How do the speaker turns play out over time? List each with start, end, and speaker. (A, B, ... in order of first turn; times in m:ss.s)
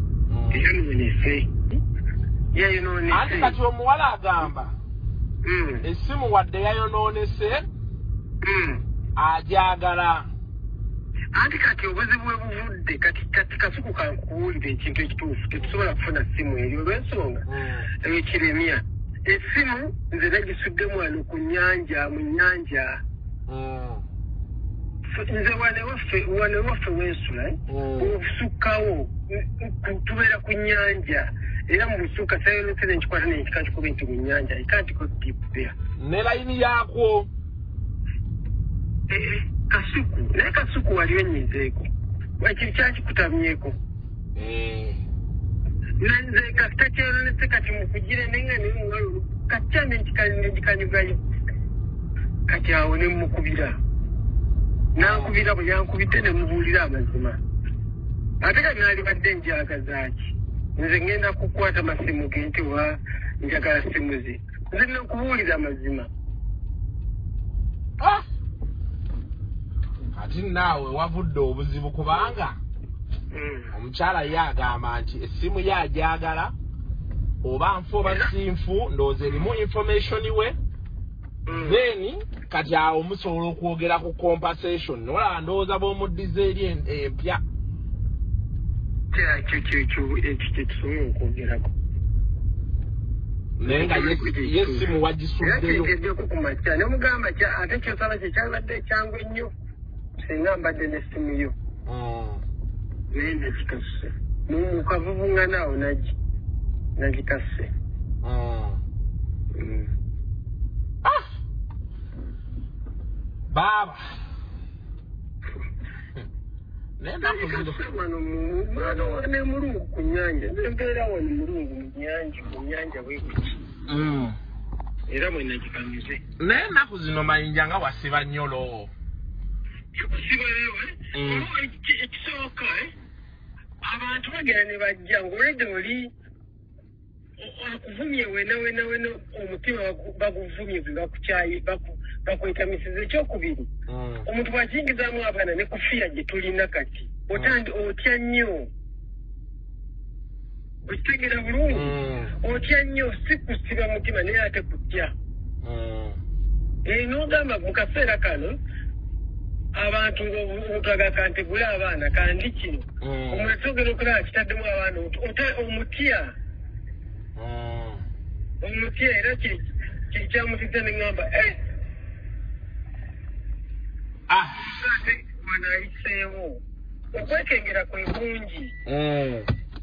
0:00.3-0:00.7 A
0:00.5-0:01.5 B
0:02.5-0:03.6 B
0:03.1-0:04.8 A
0:05.4-0:05.8 B
0:05.8-0:07.7 A
0:08.4-0:08.8 B
0:09.2-0:10.3 A
0:11.3-0:17.4 B
0:17.5-0:17.9 A
0:18.0-0:23.0 B
0:23.5-0:24.1 A
0:25.1-0:35.7 B
0:27.7-0:28.1 A
0:36.0-0:37.3 A
0:39.1-0:41.9 B
0:42.4-0:43.8 B
0:44.4-0:45.0 A
0:46.0-0:51.2 B
0:52.5-0:53.8 B
0:55.0-0:55.3 A
0:55.0-0:57.4 B
0:58.4-1:06.1 B
1:10.1-1:12.6 A
1:13.3-1:13.7 B
1:13.7-1:16.5 A
1:17.4-1:20.6 A
1:18.0-1:18.3 B
1:21.5-1:21.8 B
1:21.5-1:27.4 A
1:29.1-1:31.7 B
1:33.6-1:35.9 A
1:33.6-1:39.5 B
1:40.2-1:41.5 B
1:41.9-1:42.4 A
1:43.1-1:46.1 B
1:47.0-1:47.7 B
1:48.2-1:48.8 A
1:49.6-1:49.9 B
1:53.5-1:54.2 A
1:57.0-1:57.8 A
1:57.2-2:03.6 B
2:03.9-2:04.4 A
2:05.1-2:06.2 B
2:06.4-2:08.9 A
2:10.0-2:12.9 B
2:11.1-2:11.5 A
2:13.8-2:16.1 B
2:17.4-2:23.7 B
2:23.9-2:24.3 A
2:24.3-2:28.7 B
2:30.9-2:35.1 B
2:31.7-2:32.3 A
2:35.6-2:36.2 A
2:36.8-2:38.6 B
2:39.7-2:46.3 B
2:43.0-2:43.5 A
2:47.4-2:48.0 A
2:48.6-2:51.6 B
2:54.3-2:54.6 A
2:54.6-2:56.6 B
2:57.1-2:58.7 B
2:58.9-2:59.5 A